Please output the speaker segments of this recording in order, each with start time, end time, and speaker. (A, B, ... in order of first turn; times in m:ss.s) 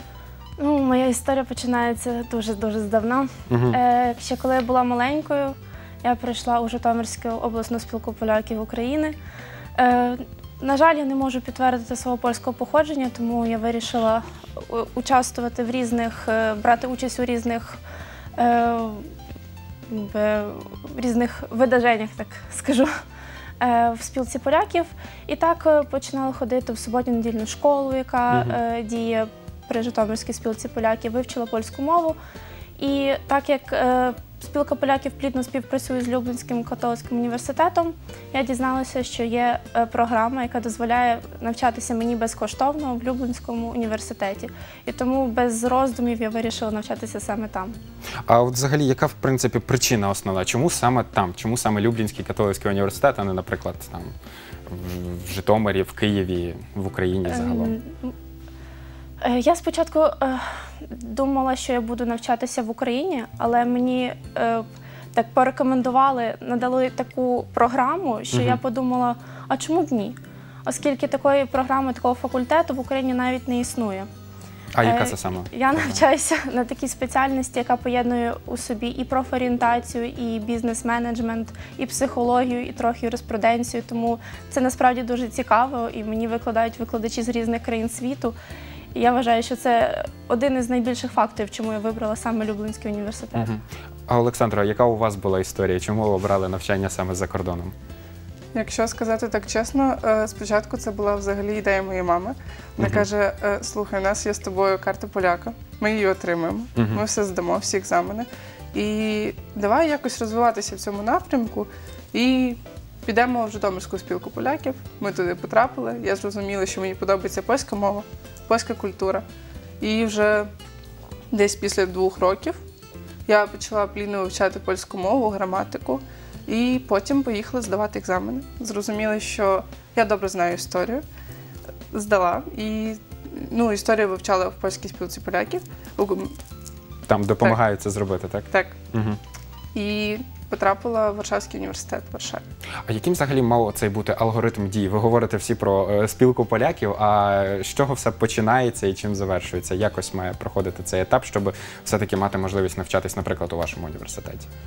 0:00.6-0:09.1 A
0:03.5-0:03.8 B
0:09.8-0:17.8 A
0:18.4-0:19.1 A
0:19.9-0:22.9 A
0:23.6-0:32.2 A
0:28.3-0:28.6 B
0:32.8-0:47.8 A
0:48.3-0:54.1 B
0:54.7-0:57.8 B
0:57.3-0:58.1 A
0:59.2-1:14.1 A
1:08.3-1:08.6 B
1:14.7-1:16.1 B
1:14.8-1:28.4 A
1:28.9-1:33.5 A
1:33.3-1:37.7 B
1:38.5-1:59.2 C
1:42.8-1:43.1 B
1:46.8-1:47.0 B
1:59.8-2:00.5 C
2:01.3-2:02.6 C
2:03.2-2:11.0 C
2:11.9-2:16.4 C
2:17.1-2:19.2 B
2:18.5-2:18.8 C
2:19.7-2:22.4 C
2:22.8-2:34.5 B